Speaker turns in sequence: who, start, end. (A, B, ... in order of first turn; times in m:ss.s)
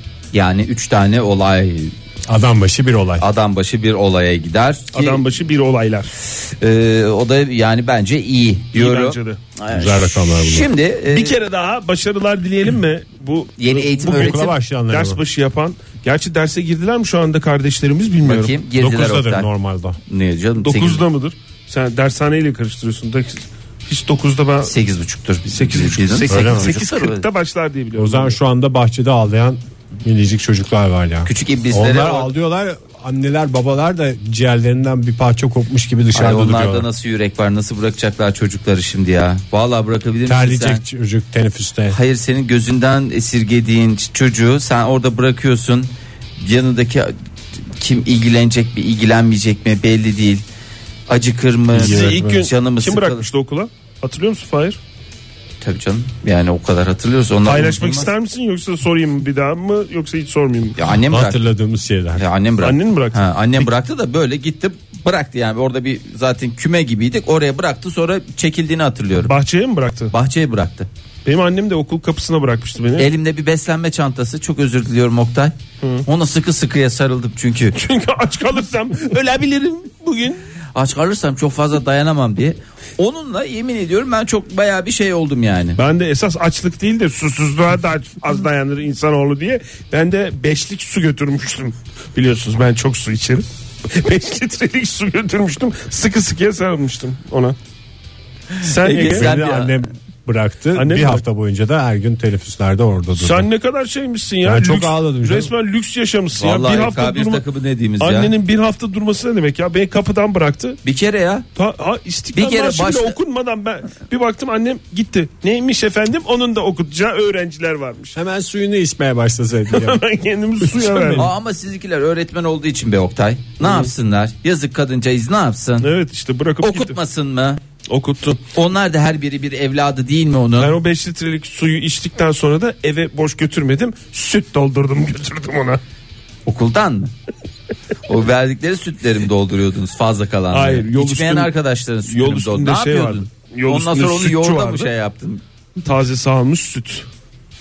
0:00.3-0:01.9 A
0:02.3-0:03.2 B
0:03.2-0:05.2 A
0:04.9-0:06.1 C
0:06.2-0:11.4 A
0:08.7-0:09.4 C
0:09.7-0:10.7 B
0:11.0-0:18.6 C
0:13.6-0:14.5 A
0:14.1-0:15.2 B
0:18.2-0:19.5 A
0:18.8-0:20.0 B
0:20.1-0:21.0 A
0:20.6-0:24.7 C
0:24.6-0:27.3 A
0:25.5-0:28.4 C
0:26.3-0:26.7 B
0:28.0-0:36.8 B
0:31.3-0:32.3 A
0:36.1-0:40.8 A
0:40.3-0:42.0 B
0:41.9-0:47.1 A
0:47.8-0:50.4 A
0:51.1-0:53.3 A
0:51.7-0:52.5 B
0:51.8-0:54.8 C
0:55.6-0:58.1 A
0:57.4-1:00.8 C
1:00.8-1:01.4 A
1:01.0-1:02.2 B
1:02.1-1:09.3 A
1:02.6-1:03.7 C
1:09.2-1:10.1 C
1:10.1-1:10.9 A
1:11.2-1:13.1 C
1:13.0-1:17.8 A
1:15.8-1:16.0 C
1:17.8-1:20.4 C
1:20.7-1:25.8 A
1:25.8-1:37.6 C
1:38.5-1:39.8 A
1:38.6-1:39.3 C
1:39.0-1:43.4 B
1:40.8-1:41.2 C
1:43.2-1:47.4 C
1:44.4-1:45.5 B
1:46.3-1:48.3 A
1:48.0-1:50.8 C
1:50.8-1:51.4 A
1:51.6-1:58.2 C
1:52.3-1:53.2 A
1:58.1-2:00.0 B
1:59.7-2:01.3 C
2:00.6-2:01.3 B
2:01.1-2:05.9 A
2:03.6-2:03.9 C
2:05.8-2:07.0 C
2:06.6-2:07.6 A
2:07.8-2:08.4 C
2:08.5-2:10.8 A
2:10.6-2:15.8 C
2:16.4-2:17.1 A
2:18.1-2:25.4 A
2:20.5-2:21.5 C
2:22.0-2:24.9 C
2:25.8-2:27.1 C